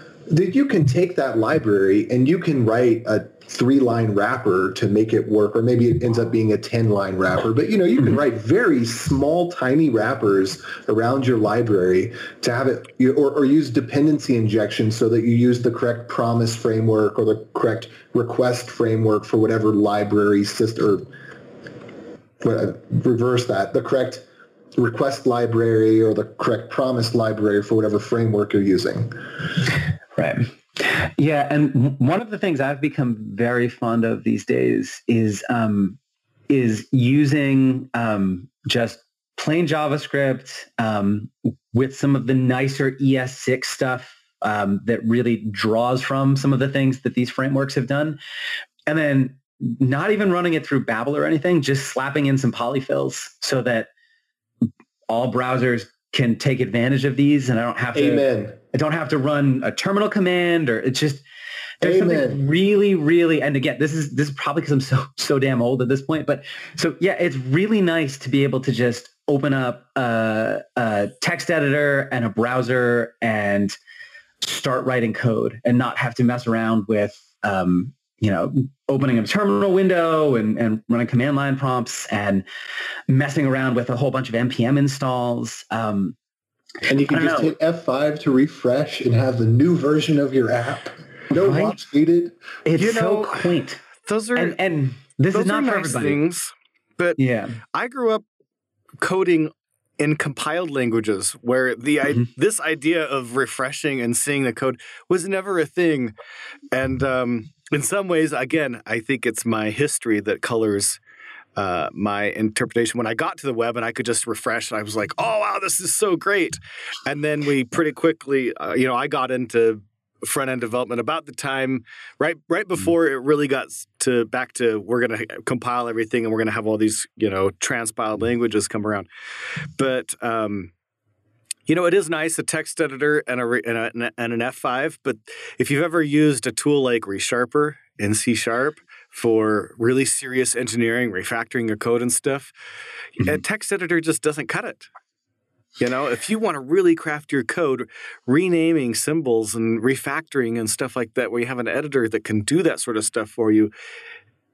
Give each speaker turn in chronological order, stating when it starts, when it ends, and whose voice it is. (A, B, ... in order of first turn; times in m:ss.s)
0:00.3-0:21.1 A
0:22.4-0:24.2 A
0:24.8-0:29.1 A
0:30.2-0:36.0 B
0:36.5-0:48.2 B
0:48.9-0:53.9 B
0:55.1-1:01.2 B
0:57.9-0:58.6 A
1:01.8-1:13.8 B
1:01.8-1:02.4 A
1:14.4-1:22.4 B
1:23.1-1:26.1 B
1:26.8-1:32.4 A
1:27.1-1:27.5 B
1:31.3-1:31.8 B
1:32.6-1:33.8 B
1:32.8-1:33.5 C
1:34.0-1:34.6 C
1:34.4-1:36.2 B
1:35.3-1:37.2 C
1:37.2-1:37.6 B
1:37.7-1:38.2 C
1:39.0-1:46.1 C
1:46.7-1:51.0 C
1:51.6-2:09.1 C
2:09.8-2:10.7 C
2:11.7-2:22.5 C
2:23.2-2:24.9 C
2:25.8-2:33.7 C